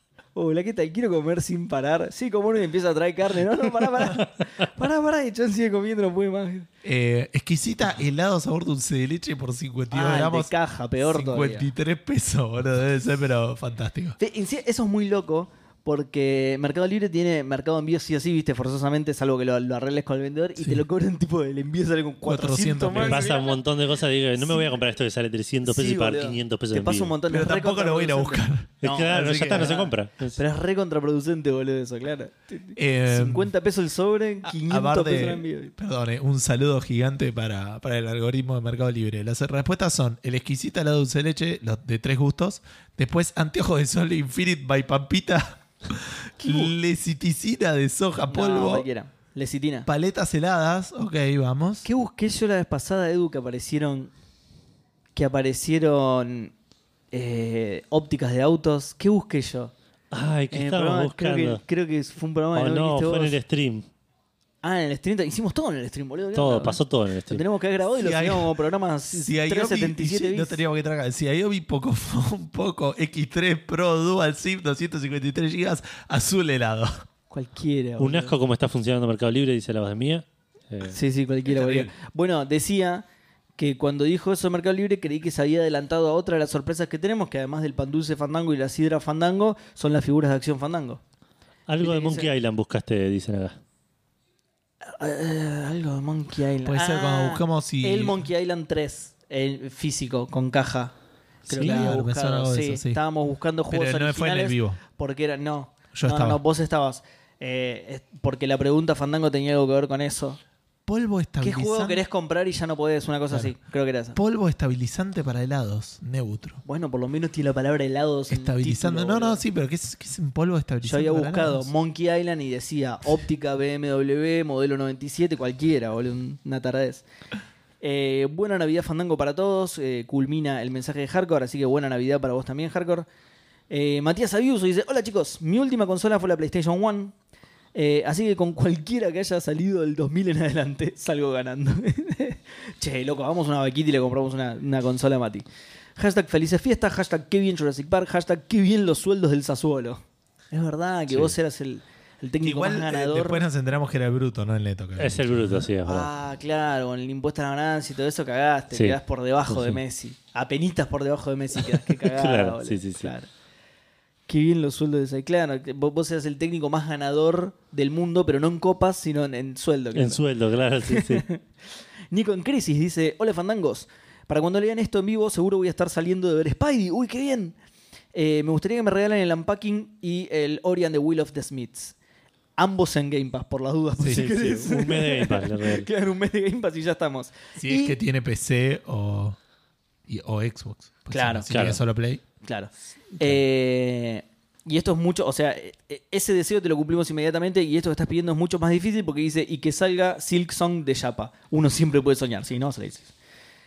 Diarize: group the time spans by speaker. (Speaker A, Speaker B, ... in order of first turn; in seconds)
Speaker A: 0.3-6.7, 9.9-11.7, 14.2-23.6, 24.4-24.8, 25.6-35.7, 48.3-49.9, 51.8-54.1, 55.1-56.5, 57.1-59.7, 60.5-63.4, 64.6-70.6, 77.3-78.3, 80.9-83.0, 83.6-91.0, 91.8-92.3, 94.9-100.9, 101.5-110.4, 111.4-114.2, 116.6-119.4, 120.8-127.0, 127.8-133.1, 133.7-137.1, 137.7-145.4, 146.0-153.4, 155.8-163.3, 164.3-170.2, 170.9-171.4, 172.1-177.6, 178.1-181.9, 182.6-187.9, 191.1-191.5, 192.4-203.1
Speaker B: 6.8-10.5, 11.0-14.2, 20.6-20.8, 22.2-23.4, 27.3-29.8, 32.8-33.5, 34.4-48.9, 49.9-51.9, 68.0-68.5, 69.1-76.9, 81.5-81.9, 96.6-98.2, 101.5-103.0, 103.7-104.8, 105.9-106.4, 110.8-112.0, 114.1-116.6, 118.3-121.7, 152.4-155.7, 184.0-184.3, 187.6-189.4, 190.1-192.2
Speaker C: 22.9-27.2, 28.8-30.4, 60.1-61.6, 62.5-63.9, 66.3-67.4, 78.0-81.0, 91.7-93.6, 101.5-101.9, 155.0-156.1, 159.5-159.8, 161.7-163.1, 169.9-171.2, 184.0-185.9, 191.5-191.8